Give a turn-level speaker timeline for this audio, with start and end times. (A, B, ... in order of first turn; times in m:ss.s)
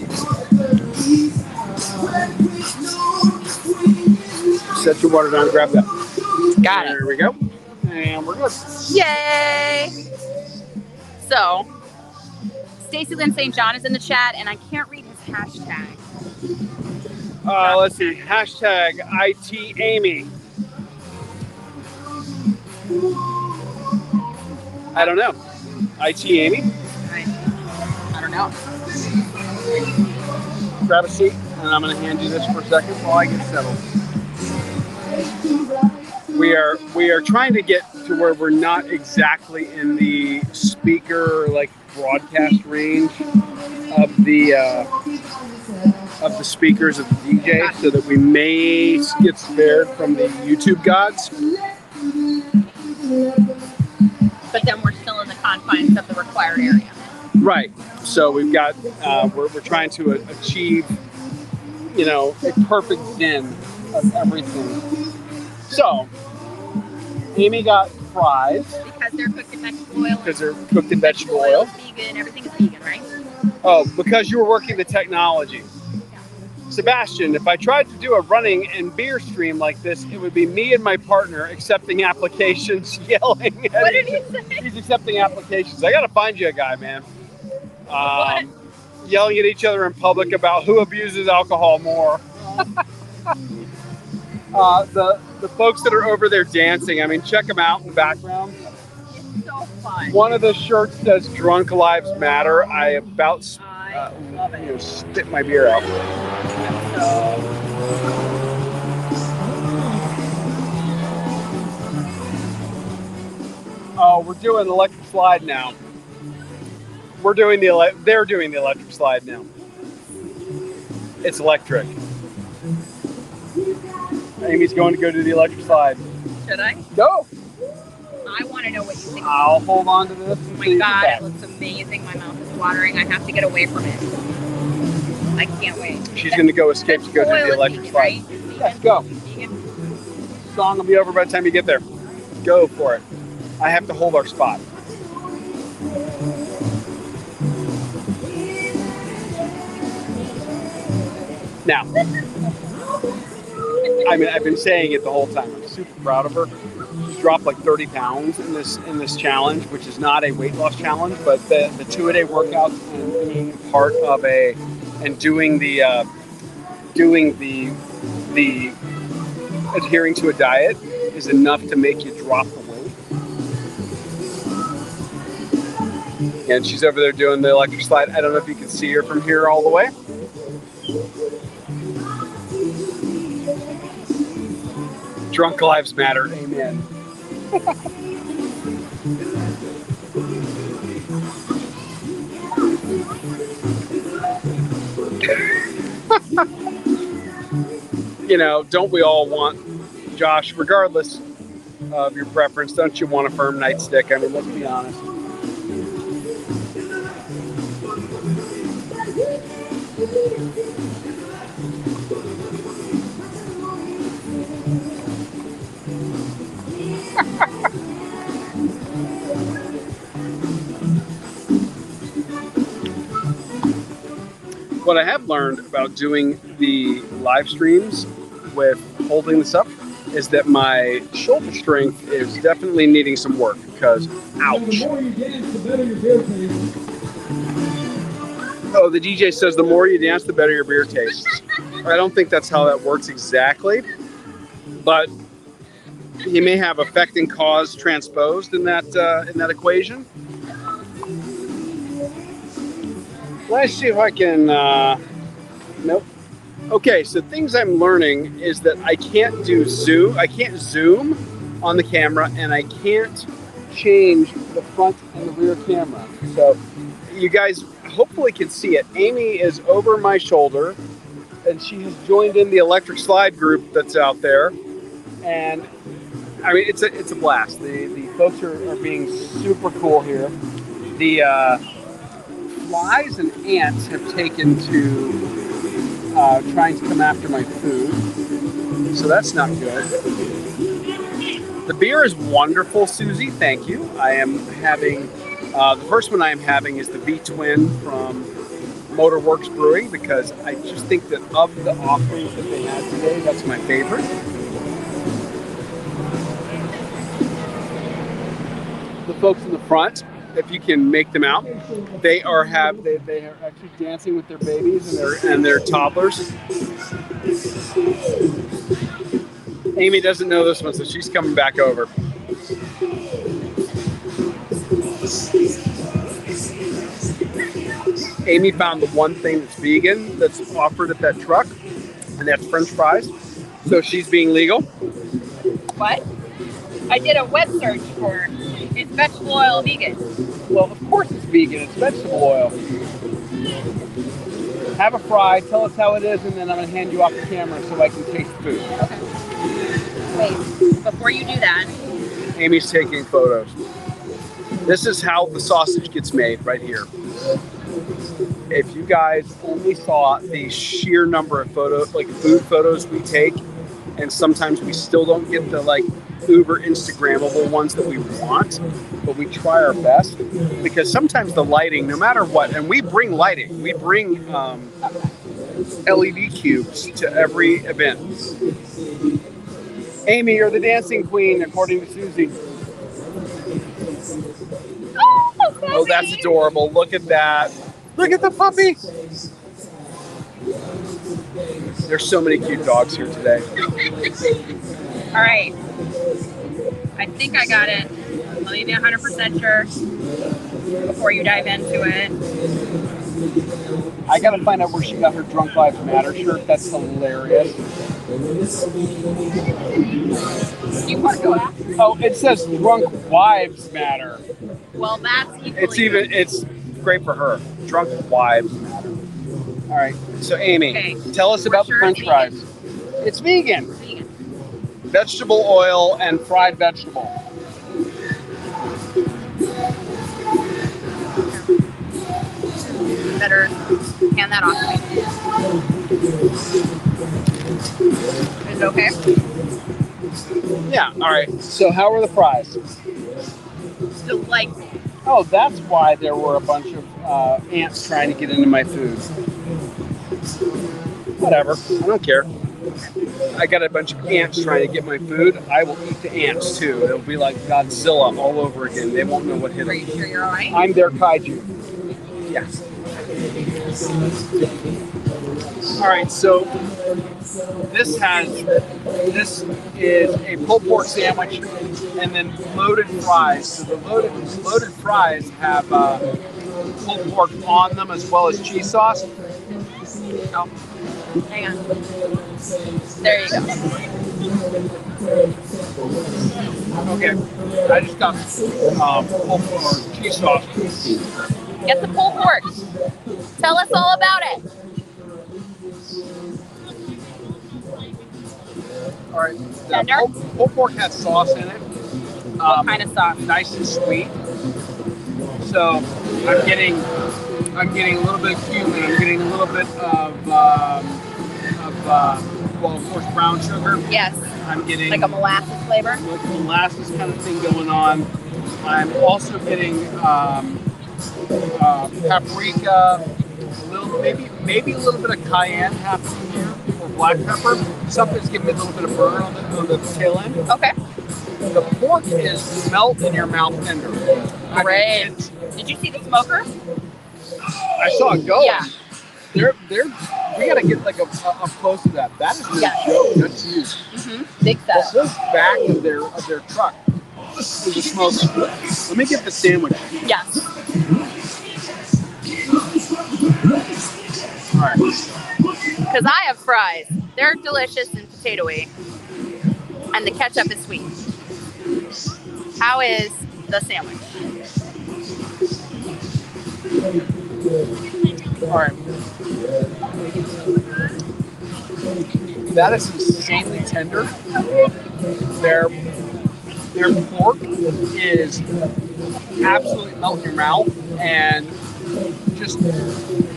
0:04.6-0:06.0 A
0:06.6-0:07.0 B
0:06.6-0:08.8 A
0:08.9-0:09.9 B
0:11.2-0:11.7 B
0:12.9-0:16.0 B
0:17.4-0:20.3 A
0:17.6-0:18.2 B
0:24.9-0:25.4 A
0:26.0-0:26.7 A
0:27.0-0:27.3 B
0:28.1-0:28.5 B
0:30.8-0:33.8 A
0:36.2-0:43.2 A
0:43.9-0:44.9 A
0:46.2-0:51.3 A
0:47.5-0:47.8 B
0:54.5-0:56.9 B
0:57.4-1:01.0 A
1:01.9-1:04.8 A
1:05.7-1:06.1 A
1:07.3-1:08.8 A
1:08.8-1:13.1 B
1:10.2-1:11.7 A
1:13.6-1:15.7 A
1:16.7-1:27.1 A
1:23.7-1:24.7 B
1:27.9-1:28.5 A
1:28.0-1:28.5 B
1:29.0-1:32.7 A
1:34.5-1:38.6 A
1:39.1-1:40.2 B
1:40.1-1:45.9 A
1:43.6-1:44.7 B
1:46.6-1:47.4 B
1:54.0-1:55.8 A
1:57.2-1:59.5 A
2:01.2-2:01.9 A
2:04.4-2:06.0 A
2:06.4-2:06.8 B
2:06.9-2:07.3 A
2:08.2-2:09.6 B
2:09.2-2:11.2 A
2:10.5-2:14.1 B
2:15.4-2:19.6 B
2:16.1-2:19.1 A
2:20.4-2:21.8 A
2:22.4-2:23.0 A
2:23.6-2:24.6 A
2:34.0-2:36.5 A
2:37.0-2:46.1 A
2:46.9-2:48.8 A
2:49.7-2:52.9 A
2:56.4-2:59.9 A
3:05.3-3:06.9 A
3:16.1-3:16.4 A
3:18.2-3:19.6 A
3:20.1-3:21.2 A
3:21.9-3:25.1 A
3:44.8-3:54.9 A
3:54.4-3:56.7 C
3:58.7-4:03.8 A
4:04.8-4:05.1 A
4:06.2-4:10.1 A
4:13.5-4:15.0 A
4:16.7-4:26.6 A
4:27.1-4:30.8 A
4:31.4-4:34.6 A
4:35.2-4:35.7 A
4:36.4-4:40.4 A
4:40.9-4:41.6 A
4:42.6-4:45.2 A
4:46.1-4:48.0 A
4:48.9-4:49.9 A
4:51.6-4:58.3 A
4:58.9-5:04.1 A
5:09.0-5:16.3 A
5:19.7-5:21.9 A
5:28.2-5:31.5 A
5:32.2-5:33.1 A
5:33.6-5:34.7 A
5:35.8-5:36.0 B
5:36.9-5:40.0 B
5:40.5-5:42.6 A
5:44.8-5:48.7 A
5:48.8-5:49.0 B
5:50.1-5:51.7 B
5:52.3-5:53.5 A
5:54.6-5:56.9 A
5:58.5-6:03.4 A
6:04.0-6:14.7 A
6:15.8-6:18.3 A
6:20.0-6:22.4 A
6:25.0-6:26.3 B
6:25.7-6:28.8 A
6:31.8-6:33.5 A
6:35.1-6:35.5 B
6:37.0-6:39.7 B
6:40.9-6:42.2 B
6:44.1-6:47.6 A
6:50.8-6:51.7 B
6:51.8-6:54.2 A
6:54.8-6:56.1 B
6:55.5-6:59.0 A
6:59.7-7:02.4 A
7:00.6-7:02.3 B
7:03.0-7:03.7 A
7:03.7-7:04.1 B
7:04.9-7:07.1 A
7:13.1-7:13.5 B
7:14.1-7:15.0 B
7:18.4-7:18.9 B
7:20.6-7:22.6 A
7:24.0-7:24.5 B
7:25.0-7:29.1 A
7:31.2-7:32.3 A
7:33.3-7:39.9 A
7:39.6-7:40.6 B
7:40.5-7:41.5 A
7:42.3-7:42.6 A
7:45.8-7:46.5 A
7:47.6-7:48.4 A
7:49.0-7:56.0 A
7:56.8-7:59.1 A
8:01.2-8:01.6 B
8:03.0-8:03.6 B
8:03.0-8:03.6 A
8:06.7-8:11.0 A
8:11.6-8:12.5 B
8:13.4-8:14.4 B
8:19.1-8:21.6 A
8:19.7-8:20.1 B
8:22.4-8:23.2 B
8:22.4-8:24.1 A
8:25.4-8:26.9 A
8:27.5-8:31.0 A
8:31.6-8:33.8 A
8:33.9-8:34.2 B
8:34.4-8:35.1 A
8:34.9-8:36.0 B
8:35.9-8:38.1 A
8:38.6-8:40.6 A
8:41.5-8:50.4 A
8:50.5-8:50.7 B
8:51.5-8:55.3 A
8:54.5-8:56.5 B
8:57.8-8:58.8 A
8:58.4-8:58.7 B
8:59.3-9:03.8 A
9:02.6-9:02.8 B
9:03.9-9:04.9 B
9:04.7-9:06.8 A
9:07.6-9:09.9 A
9:10.0-9:10.4 B
9:14.5-9:14.8 A
9:15.9-9:18.7 B
9:19.9-9:20.9 B
9:22.6-9:24.1 B
9:28.5-9:28.8 A
9:32.5-9:34.1 A
9:35.4-9:35.8 A
9:36.7-9:38.4 A
9:39.4-9:41.6 A
9:42.3-9:42.6 A